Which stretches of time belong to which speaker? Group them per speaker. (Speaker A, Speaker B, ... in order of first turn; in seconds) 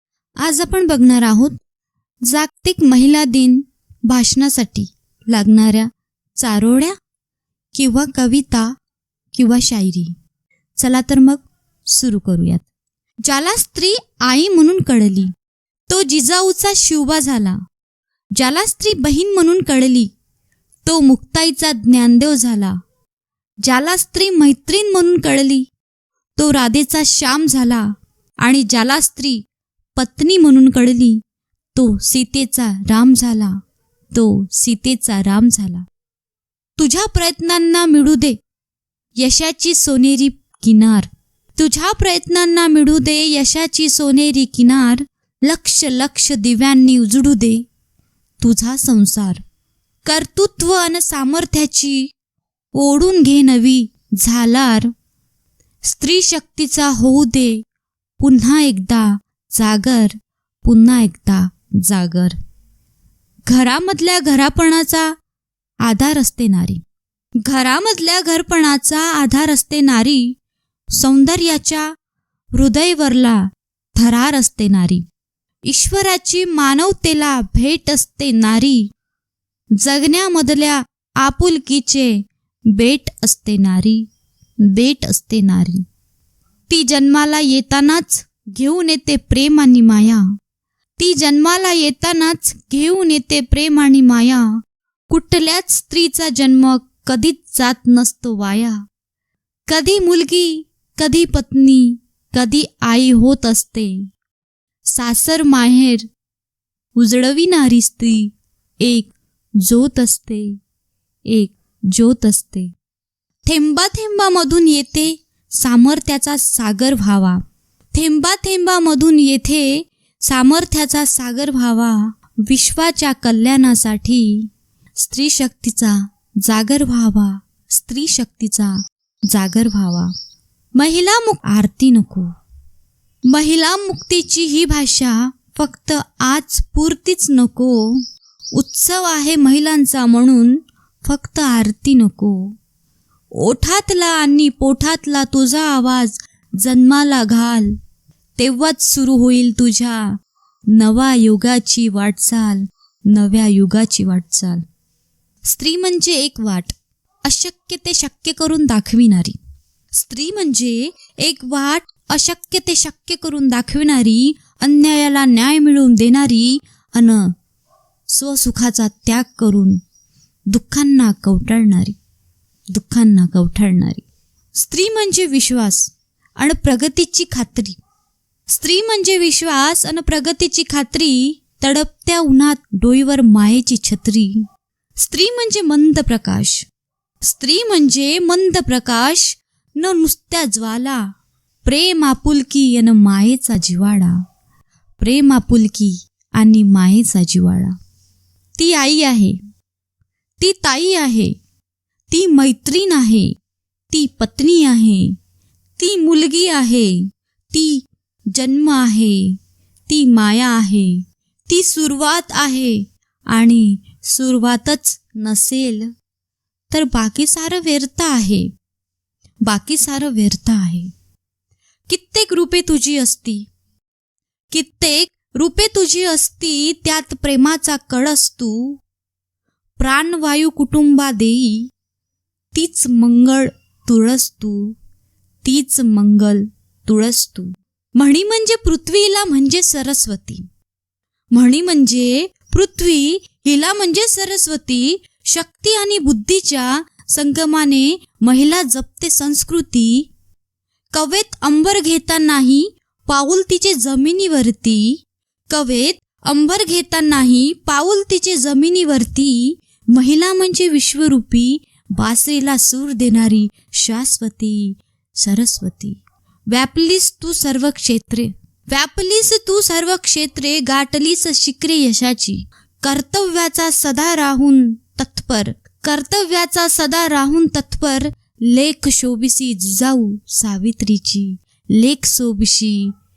Speaker A: 0.4-1.6, 2.2-6.9, 7.7-8.7, 9.3-10.1, 10.8-12.6, 13.2-15.3, 15.9-17.6, 18.4-20.1, 20.8-22.8, 23.6-25.6, 26.4-27.9, 28.4-29.4, 29.9-31.2, 31.7-33.5, 34.1-35.8, 36.8-38.4, 39.2-47.6, 48.4-49.4, 50.0-52.0, 52.7-54.9, 55.8-57.6, 58.2-62.4, 63.5-65.1, 65.8-66.8, 67.4-70.3, 71.0-71.9, 72.5-73.4, 73.9-75.0, 75.7-78.8, 79.8-84.0, 84.7-85.8, 86.7-90.2, 91.0-94.5, 95.1-98.8, 99.7-104.0, 104.9-106.0, 107.0-110.5, 111.3-112.7, 113.5-117.4, 117.9-124.5, 125.0-128.8, 129.3-130.1, 130.8-132.3, 133.3-142.5, 143.4-147.7, 148.4-150.1, 150.7-154.6, 155.4-156.7, 157.2-159.3, 159.9-167.3, 168.1-169.8, 170.5-171.9, 172.7-174.0, 174.5-177.8, 178.5-184.4, 185.0-186.6, 187.2-191.0, 191.6-194.2, 195.0-197.7, 198.6-199.4, 200.4-201.3, 202.1-203.3, 203.9-205.1, 205.8-206.9, 207.5-209.3, 209.9-215.9, 216.7-218.4, 219.4-220.9, 221.9-223.5, 224.5-228.8, 229.8-231.7, 232.5-234.8, 235.4-240.4, 241.3-250.1, 250.9-255.0, 255.5-266.0, 266.5-282.9